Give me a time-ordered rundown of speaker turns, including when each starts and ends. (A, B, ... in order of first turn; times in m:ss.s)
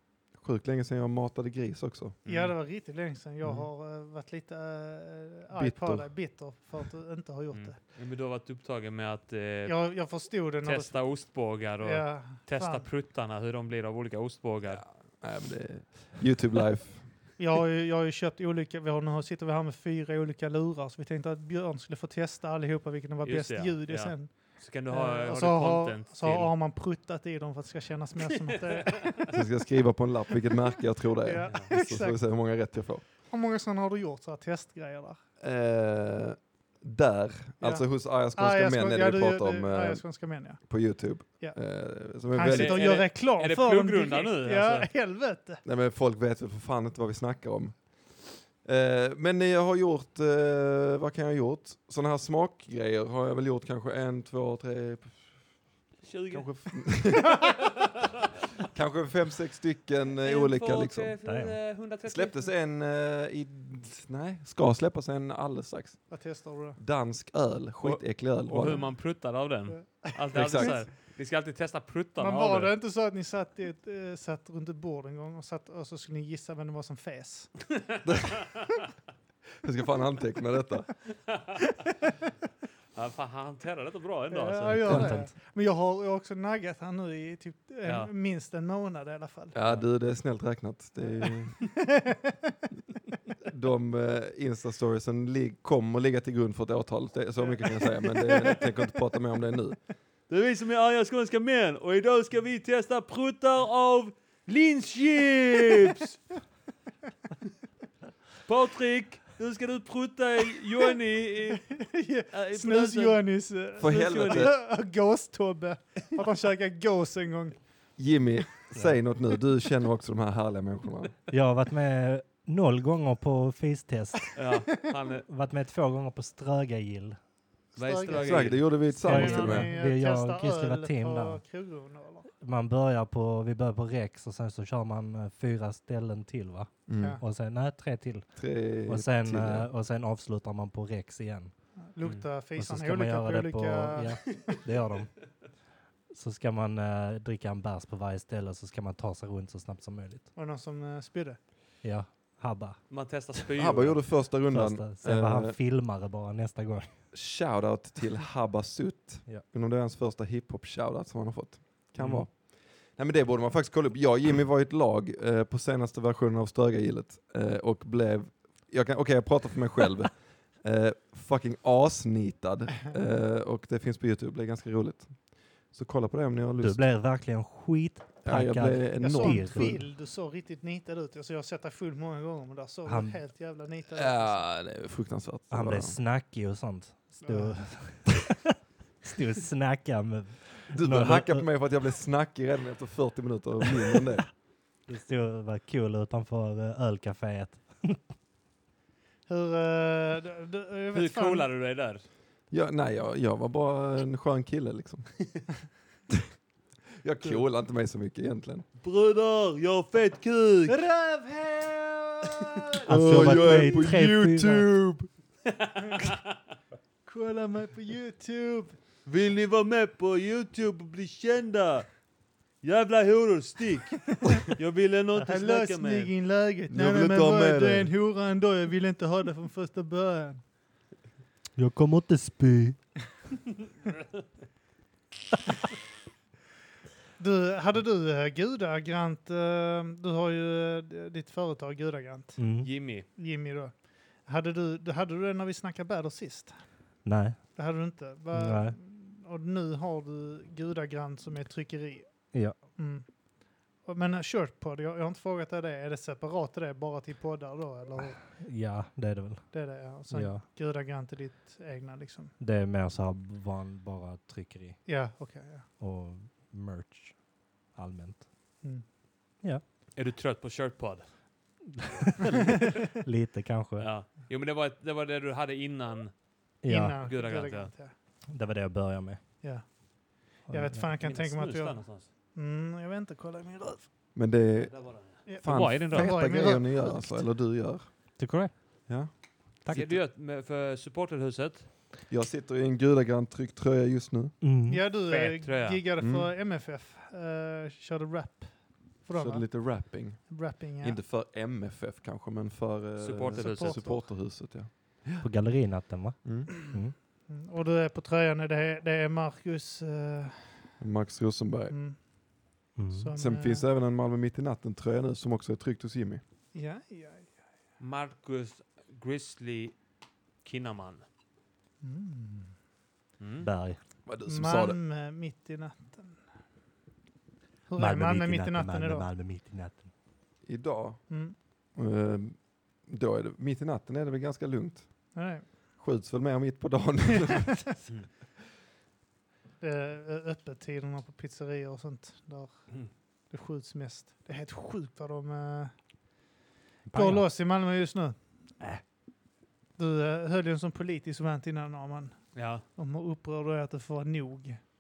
0:00.4-0:02.2 A
0:02.2-0:02.6 B
0:02.3-0:07.8 C
0:05.5-0:06.2 A
0:07.5-0:09.8 B
0:09.7-0:11.0 C
0:10.6-0:14.8 B
0:11.8-0:12.9 C
0:14.6-0:17.1 A
0:17.4-0:24.3 C
0:23.2-0:26.5 B
0:24.9-0:29.3 C
0:28.5-0:29.3 B
0:29.3-0:33.0 A
0:31.2-0:32.2 C
0:33.3-0:35.2 C
0:35.4-0:40.0 A
0:37.6-0:40.6 C
0:40.6-0:42.8 A
0:42.3-0:45.6 C
0:42.4-0:44.9 B
0:45.6-0:47.9 A
0:48.6-0:55.2 A
0:56.0-0:56.7 B
0:56.3-0:58.0 A
0:58.6-1:01.1 A
1:00.2-1:02.5 B
1:01.2-1:01.6 D
1:02.1-1:06.0 A
1:06.1-1:06.8 C
1:06.8-1:08.8 A
1:07.8-1:12.7 B
1:09.7-1:10.8 C
1:10.3-1:10.8 A
1:12.2-1:17.5 C
1:18.0-1:18.5 A
1:19.6-1:20.9 A
1:23.0-1:25.1 B
1:24.3-1:29.6 C
1:24.8-1:25.3 D
1:24.9-1:25.2 A
1:29.5-1:31.7 A
1:31.9-1:32.6 C
1:33.5-1:39.8 A
1:38.3-1:38.6 B
1:40.3-1:46.2 B
1:48.5-1:51.7 B
1:51.7-1:57.6 C
1:52.3-1:54.5 B
1:53.8-1:54.5 A
1:58.0-2:01.1 A
2:01.3-2:04.4 D
2:04.4-2:05.2 B
2:05.3-2:07.2 D
2:07.8-2:08.8 B
2:07.8-2:12.3 C
2:08.2-2:09.7 A
2:09.0-2:11.4 D
2:12.4-2:21.5 D
2:16.9-2:17.2 A
2:17.0-2:17.2 C
2:18.4-2:19.7 A
2:21.9-2:24.6 C
2:22.6-2:25.3 D
2:26.1-2:30.3 D
2:30.4-2:31.4 C
2:31.8-2:32.8 D
2:32.9-2:34.1 B
2:33.6-2:35.6 A
2:34.5-2:37.0 D
2:37.1-2:55.2 A
2:55.7-2:56.8 A
2:56.6-2:59.8 D
2:58.2-2:59.8 A
2:59.0-3:04.4 C
3:02.9-3:03.2 D
3:03.9-3:06.0 A
3:05.5-3:08.5 D
3:07.2-3:07.7 C
3:09.0-3:11.5 D
3:10.7-3:14.3 A
3:14.9-3:18.0 D
3:19.3-3:21.5 C
3:20.9-3:22.0 B
3:22.5-3:25.1 A
3:27.0-3:28.6 A
3:28.8-3:30.8 B
3:30.7-3:33.6 C
3:32.9-3:34.7 D
3:32.9-3:35.1 A
3:35.5-3:36.3 B
3:37.1-3:38.8 C
3:39.1-3:41.9 B
3:42.6-3:46.1 B
3:45.2-3:50.4 C
3:46.7-3:47.9 A
3:51.6-3:52.8 D
3:57.2-4:02.4 C
4:02.4-4:02.7 D
4:02.6-4:03.1 B
4:03.1-4:03.7 C
4:04.2-4:06.6 C
4:07.0-4:07.4 D
4:07.6-4:12.1 C
4:08.3-4:08.8 D
4:12.8-4:13.1 C
4:13.8-4:18.2 C
4:18.2-4:19.5 D
4:19.5-4:22.3 C
4:20.1-4:20.4 D
4:22.4-4:24.8 D
4:24.9-4:25.7 C
4:25.8-4:27.2 D
4:27.8-4:28.3 D
4:30.0-4:31.1 B
4:31.8-4:33.9 D
4:32.3-4:32.6 B
4:33.8-4:36.1 B
4:36.6-4:37.0 D
4:36.7-4:37.9 C
4:37.0-4:37.7 B
4:38.3-4:39.2 D
4:40.4-4:43.9 C
4:40.5-4:40.9 D
4:41.0-4:42.1 B
4:44.2-4:48.1 A
4:44.7-4:46.1 B
4:45.3-4:47.2 C
4:48.2-4:48.5 D
4:49.6-4:49.9 D
4:49.7-4:51.7 B
4:52.1-4:54.4 A
4:54.4-4:54.8 D
4:54.7-5:01.0 C
4:55.1-4:55.8 B
4:56.0-4:56.3 A
4:59.2-5:05.3 A
5:03.0-5:03.8 B
5:03.4-5:04.1 C
5:05.2-5:06.9 D
5:06.2-5:06.5 A
5:07.3-5:10.7 C
5:10.8-5:11.7 A
5:11.7-5:12.0 C
5:12.8-5:13.1 D
5:12.9-5:13.6 C
5:13.2-5:16.2 A
5:16.5-5:17.3 C
5:17.8-5:19.8 B
5:20.4-5:21.0 B
5:21.8-5:22.5 C
5:23.2-5:23.5 B
5:23.4-5:23.8 D
5:24.1-5:24.8 A
5:24.3-5:26.2 C
5:27.7-5:29.1 C
5:27.8-5:29.8 D
5:30.5-5:31.1 A
5:31.1-5:31.4 C
5:31.8-5:35.2 A
5:35.2-5:35.5 C
5:35.8-5:37.8 A
5:39.6-5:42.8 C
5:43.3-5:45.7 C
5:46.9-5:47.3 D
5:46.9-5:48.2 C
5:49.8-5:54.6 C
5:52.4-5:52.6 B